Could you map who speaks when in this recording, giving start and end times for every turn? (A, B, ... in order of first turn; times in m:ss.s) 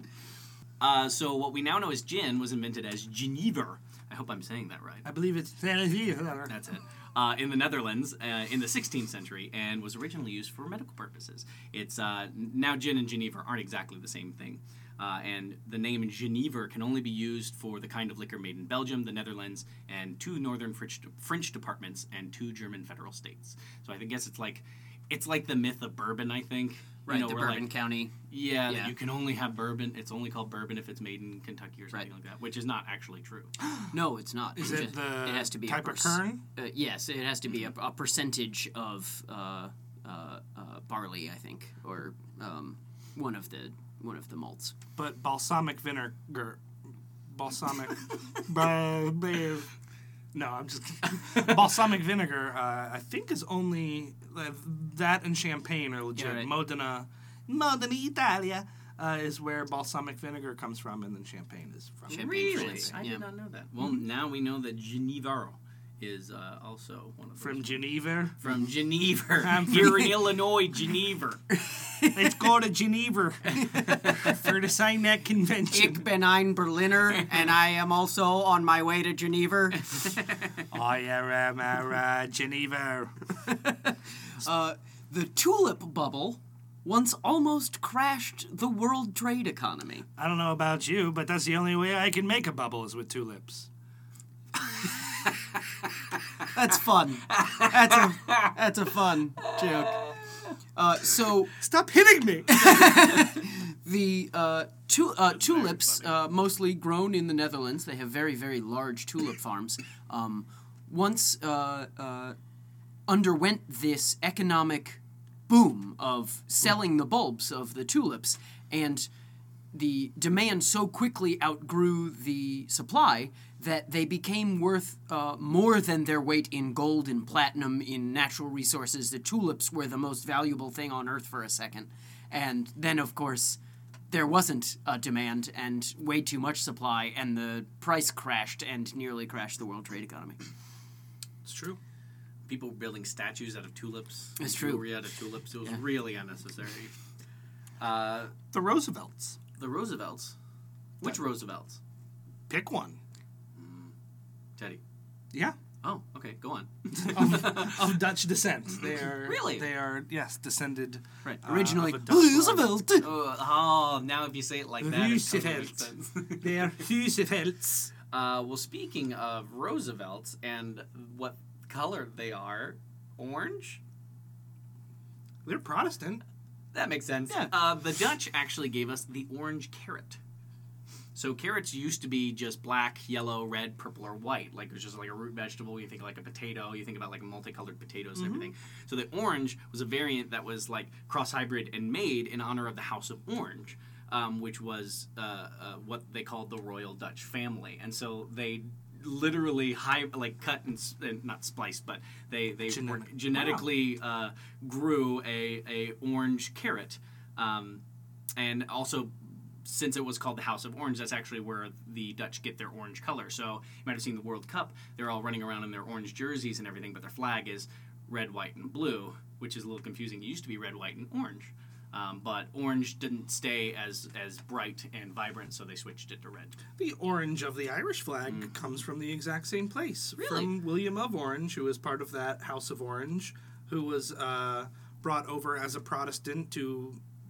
0:00.8-0:05.0 A
0:05.0-0:06.6 B
0:06.5-0:33.5 A
0:27.1-0:28.2 C
0:28.7-0:28.9 C
0:33.9-0:44.8 C
0:34.6-0:36.4 B
0:45.0-0:46.6 B
0:47.3-0:49.7 B
0:50.3-1:03.0 B
0:56.2-0:56.5 C
1:02.1-1:03.2 C
1:02.1-1:07.8 A
1:07.4-1:08.6 B
1:08.4-1:11.4 A
1:09.4-1:10.4 B
1:11.6-1:12.2 C
1:12.1-1:16.1 B
1:13.6-1:14.0 C
1:15.7-1:20.1 C
1:19.9-1:20.5 A
1:20.7-1:23.2 B
1:23.5-1:30.1 C
1:30.2-1:33.7 B
1:34.6-1:35.8 A
1:36.5-1:40.0 C
1:37.3-1:38.5 A
1:39.4-1:40.4 A
1:40.8-1:41.5 C
1:41.6-1:42.6 B
1:42.5-1:52.4 C
1:45.3-1:46.1 A
1:53.1-1:59.1 C
1:59.7-2:20.4 C
2:21.4-2:21.8 B
2:22.5-2:26.9 A
2:24.4-2:24.9 C
2:27.8-2:28.4 A
2:28.5-2:29.4 B
2:29.6-2:30.4 A
2:31.0-2:31.8 A
2:32.5-2:33.0 B
2:33.6-2:33.9 A
2:35.3-2:35.6 B
2:35.8-2:37.9 A
2:37.0-2:42.6 B
2:38.8-2:39.7 A
2:41.2-2:43.1 C
2:42.1-2:46.7 A
2:44.8-2:47.9 B
2:48.1-2:53.8 A
2:55.4-2:56.2 B
2:56.7-3:00.2 A
3:01.2-3:27.8 A
3:08.2-3:08.5 B
3:22.7-3:23.7 B
3:28.4-3:46.6 A
3:46.8-3:57.0 B
3:50.2-3:50.5 A